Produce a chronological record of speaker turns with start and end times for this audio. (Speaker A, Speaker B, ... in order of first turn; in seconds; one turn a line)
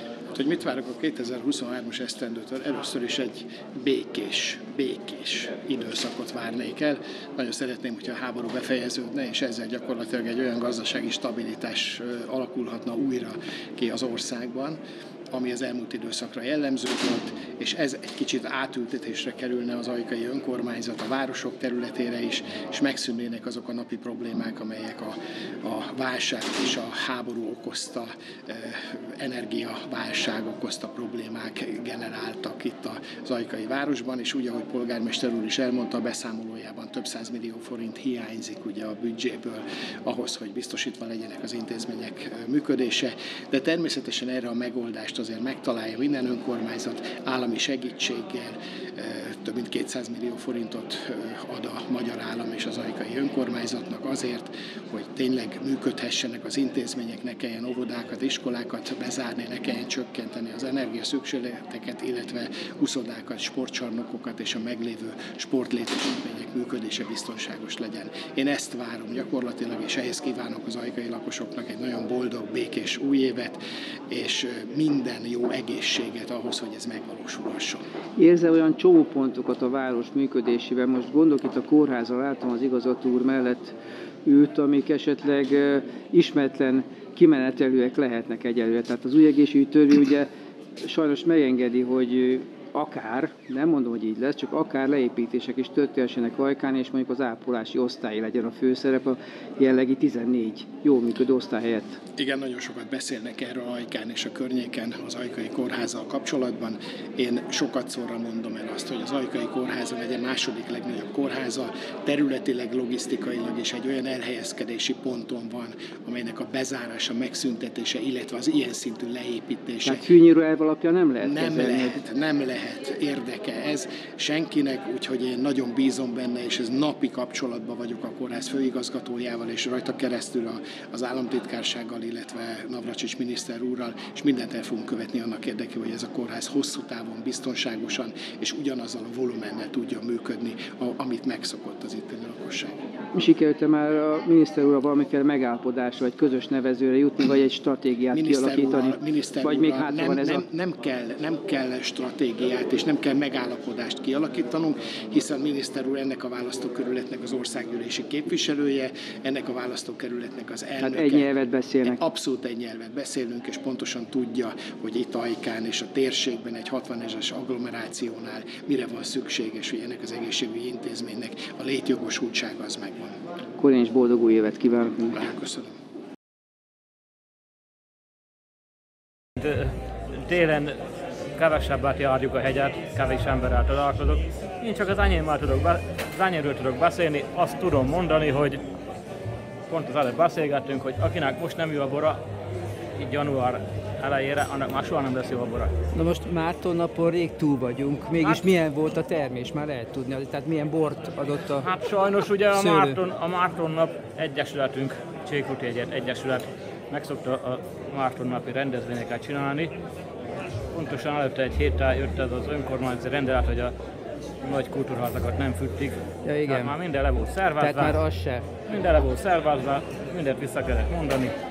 Speaker A: 0.3-14.8
Speaker A: 15.3-73.6
Speaker A: 74.1-77.8
Speaker B: 78.2-90.3
Speaker B: 90.8-102.0
Speaker A: 102.2-120.1
Speaker B: 119.8-122.0
Speaker A: 121.2-142.7
Speaker B: 143.2-150.4
Speaker A: 148.1-161.3
Speaker B: 160.8-162.0
Speaker A: 161.8-173.2
Speaker B: 173.6-175.2
Speaker A: 175.1-175.7
Speaker C: 179.4-180.8
Speaker C: 181.3-188.6
Speaker C: 189.7-192.2
Speaker C: 192.9-195.7
Speaker B: 195.9-201.7
Speaker C: 201.6-209.7
Speaker B: 202.5-203.0
Speaker C: 210.7-213.7
Speaker C: 214.4-218.0
Speaker B: 216.2-216.7
Speaker B: 217.6-218.5
Speaker C: 218.7-221.3